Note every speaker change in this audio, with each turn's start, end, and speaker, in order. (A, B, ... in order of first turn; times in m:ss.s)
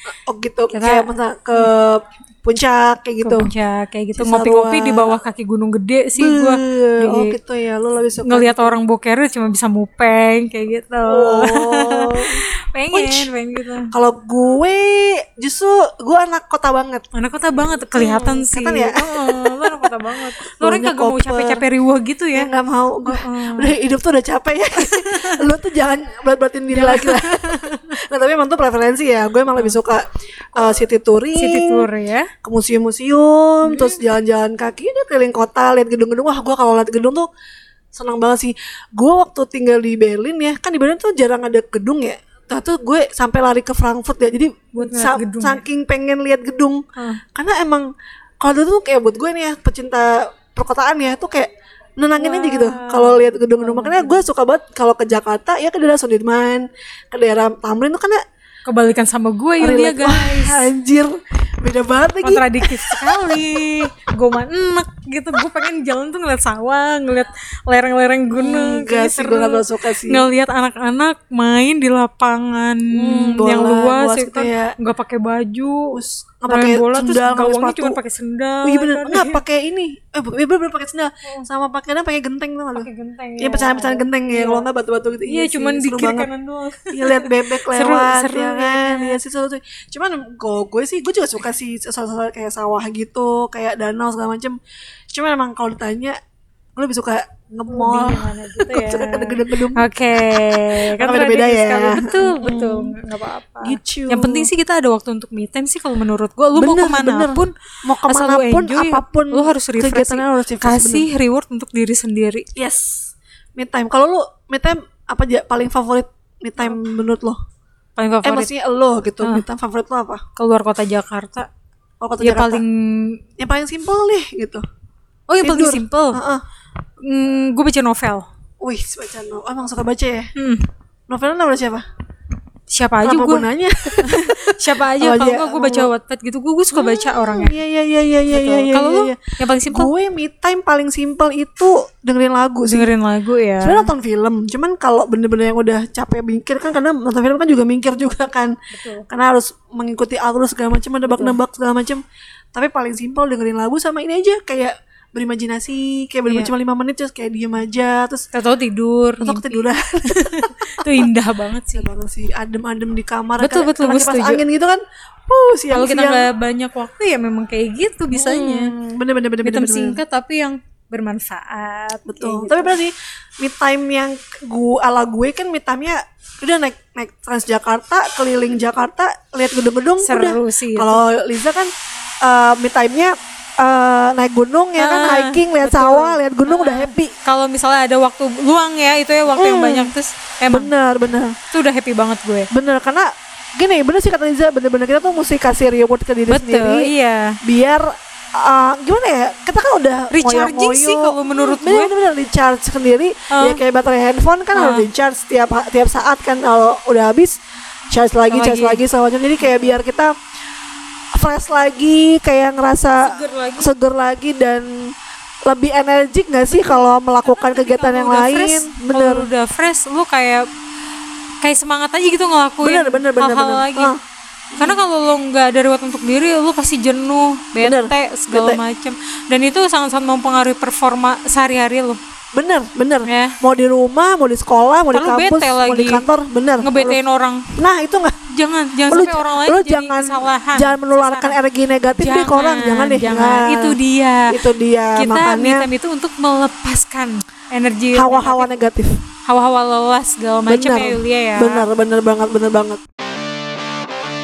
0:00.2-0:03.5 A
0:00.7-0:01.7 B
0:03.2-0:07.4 B
0:04.2-0:05.2 A
0:06.2-0:08.8 A
0:08.2-0:13.9 B
0:11.1-0:13.3 A
0:13.9-0:17.0 A
0:17.1-0:22.5 B
0:17.9-0:21.6 A
0:22.4-0:31.9 A
0:23.0-0:23.7 B
0:24.8-0:25.4 B
0:26.7-0:27.9 B
0:31.4-0:32.3 B
0:32.4-0:37.3 A
0:33.6-0:34.0 B
0:37.9-0:47.9 A
0:44.8-0:45.6 B
0:48.4-0:58.2 A
0:52.2-0:54.3 B
0:58.7-1:00.7 B
0:59.6-1:03.5 A
1:02.2-1:19.4 B
1:08.3-1:10.2 A
1:12.9-1:14.8 A
1:15.9-1:18.0 A
1:18.6-1:22.9 A
1:22.8-1:24.6 B
1:23.4-1:26.3 A
1:25.3-1:29.2 B
1:26.9-1:34.6 A
1:35.1-1:36.2 A
1:36.8-1:43.0 A
1:37.7-1:47.5 B
1:43.6-1:44.5 A
1:46.6-1:51.1 A
1:48.1-1:52.5 B
1:52.6-1:57.4 A
1:58.0-1:58.5 B
1:58.2-2:00.2 A
2:00.4-2:01.5 B
2:02.0-2:02.6 A
2:02.2-2:03.2 B
2:03.4-2:04.6 A
2:05.3-2:06.2 B
2:05.4-2:06.4 A
2:07.0-2:08.3 B
2:08.6-2:10.3 A
2:10.4-2:10.7 B
2:11.1-2:11.8 A
2:12.7-2:13.5 B
2:13.0-2:15.9 A
2:14.0-2:17.6 B
2:16.7-2:22.9 A
2:18.3-2:19.9 B
2:22.7-2:23.9 B
2:23.6-2:28.6 A
2:28.7-2:29.1 B
2:29.1-2:32.0 A
2:31.1-2:31.4 B
2:32.5-2:38.3 A
2:36.3-2:36.5 B
2:38.3-2:41.9 B
2:39.2-2:41.1 A
2:41.7-2:46.3 A
2:43.4-2:44.4 B
2:45.7-2:48.7 B
2:48.1-2:50.0 A
2:49.4-2:52.8 B
2:52.1-3:01.7 A
3:00.0-3:01.0 B
3:02.2-3:07.2 A
3:04.8-3:10.7 B
3:09.3-3:09.9 A
3:10.5-3:11.4 A
3:11.5-3:12.5 B
3:12.5-3:16.9 A
3:16.3-3:17.4 B
3:17.4-3:27.4 A
3:20.1-3:21.9 B
3:23.3-3:23.6 B
3:24.5-3:24.9 B
3:27.9-3:30.1 A
3:28.3-3:28.8 B
3:29.4-3:29.8 B
3:31.1-3:34.9 A
3:33.0-3:33.7 B
3:35.5-3:39.3 A
3:36.5-3:40.5 B
3:41.4-3:43.9 B
3:42.6-3:44.0 A
3:44.5-3:44.8 A
3:44.6-3:52.0 B
3:47.6-3:48.6 A
3:52.4-3:57.0 A
3:53.0-3:53.4 B
3:54.9-3:56.0 B
3:56.6-3:57.5 B
3:57.6-3:58.2 A
3:58.3-4:01.4 B
3:58.9-4:03.8 A
4:02.0-4:04.3 B
4:04.3-4:05.7 A
4:05.0-4:08.5 B
4:08.0-4:09.0 A
4:09.2-4:11.7 B
4:10.5-4:12.8 A